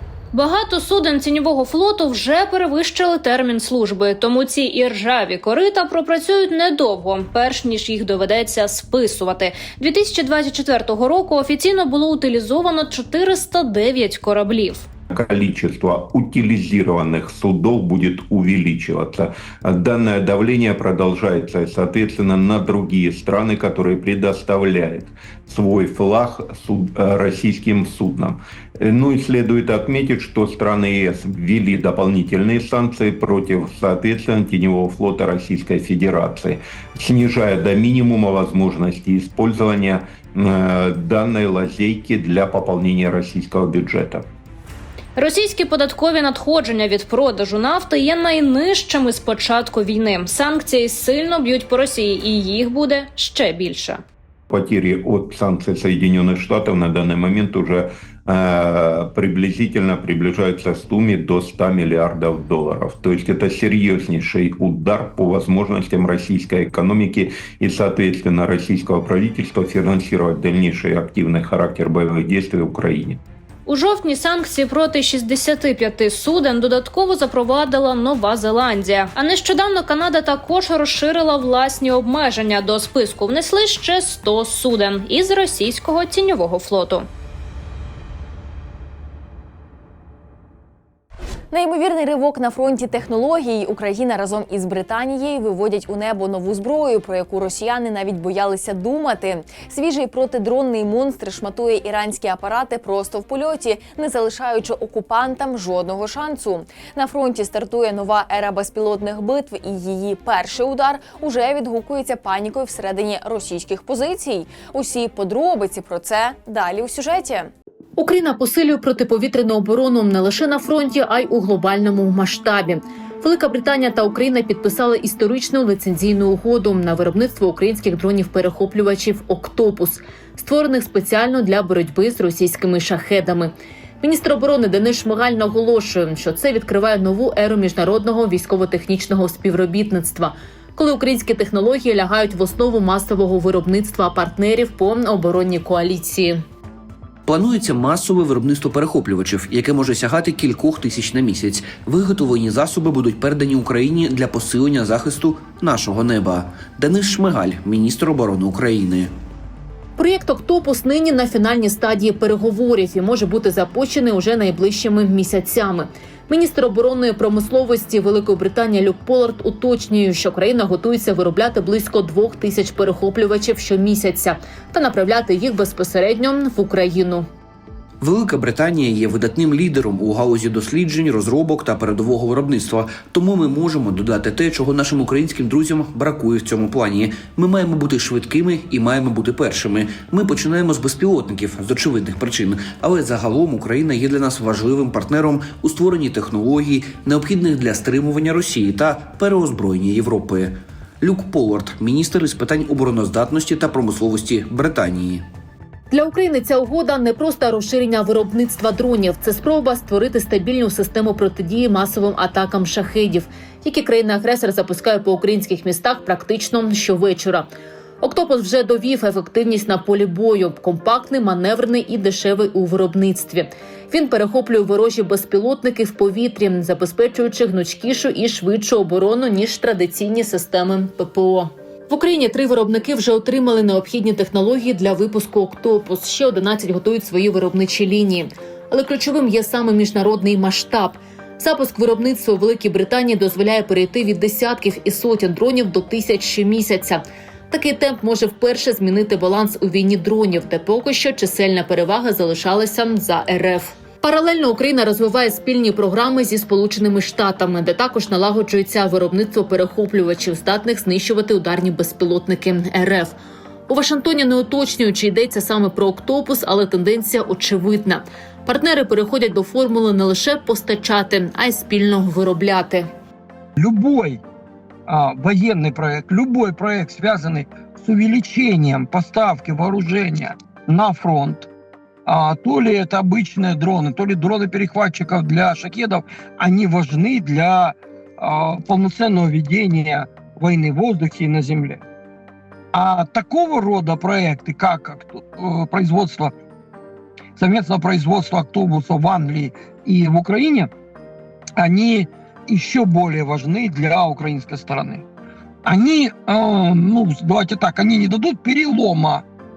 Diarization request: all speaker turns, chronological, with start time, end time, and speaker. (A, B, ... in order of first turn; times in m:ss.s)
0:00.3-0:14.9 A
0:15.1-0:44.2 B
0:45.2-0:54.0 A
0:54.5-1:13.2 B
1:13.6-1:27.1 A
1:31.5-1:57.5 C
1:58.0-2:26.4 D
2:27.2-2:39.1 E
2:40.0-2:57.3 D
2:58.0-3:25.2 E
3:25.9-3:37.5 D
3:38.0-4:23.2 D
4:23.7-4:32.9 D
4:33.6-4:34.2 F
4:34.9-4:41.5 F
4:42.0-4:51.8 F
4:52.7-4:56.3 F
4:57.4-5:00.7 F
5:01.6-5:05.0 F
5:05.6-5:09.2 F